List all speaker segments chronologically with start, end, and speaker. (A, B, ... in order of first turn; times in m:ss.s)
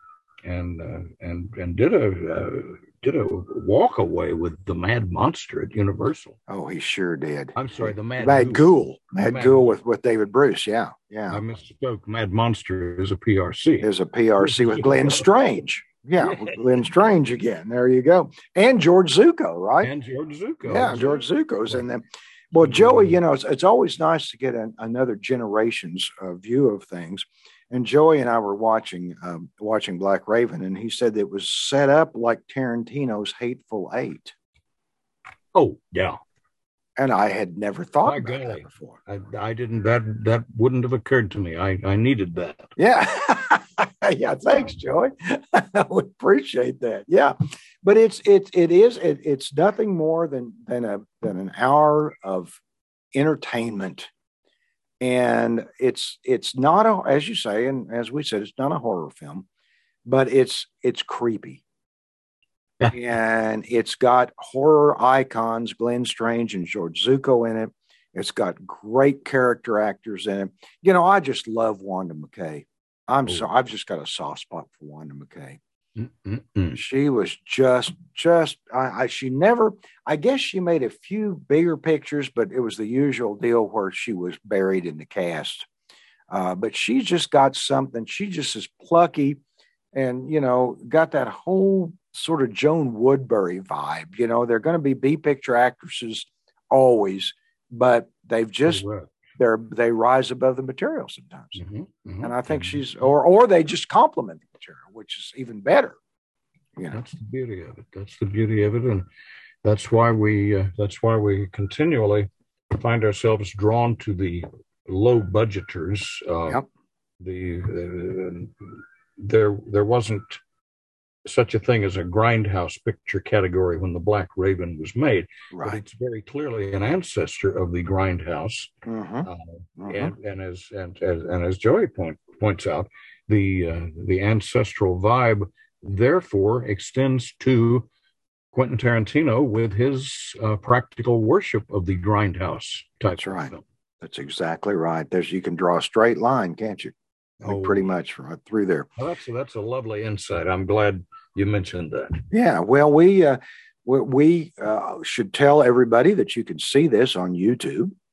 0:00.4-0:06.4 A
0:06.5-0:07.6 B
0:07.6-0:08.7 A
0:08.2-0:11.4 B
0:09.2-0:09.8 A
0:11.3-0:13.9 A
0:13.8-0:19.9 B
0:14.4-0:15.2 A
0:16.2-0:16.6 A
0:19.8-0:21.8 A
0:20.6-0:34.3 B
0:22.6-0:23.2 A
0:35.5-0:36.2 A
0:37.0-0:39.0 B
0:38.0-0:42.7 A
0:42.8-0:52.6 B
0:53.1-0:54.1 B
0:55.0-0:59.5 B
1:00.0-1:01.6 B
1:02.8-1:15.6 B
1:16.0-1:16.8 A
1:16.8-1:25.7 B
1:26.3-1:29.4 B
1:29.9-1:38.8 B
1:38.7-1:39.1 A
1:39.4-1:41.6 B
1:41.6-1:42.8 A
1:42.2-1:46.0 B
1:46.8-1:47.0 B
1:46.9-1:49.1 A
1:49.6-1:56.6 A
1:57.2-2:00.4 A
2:01.3-2:08.7 A
2:05.5-2:05.8 B
2:08.9-2:10.2 B
2:09.2-2:17.9 A
2:18.5-2:23.6 A
2:23.2-2:28.9 B
2:27.4-2:27.9 A
2:29.0-2:32.2 A
2:32.3-2:37.9 B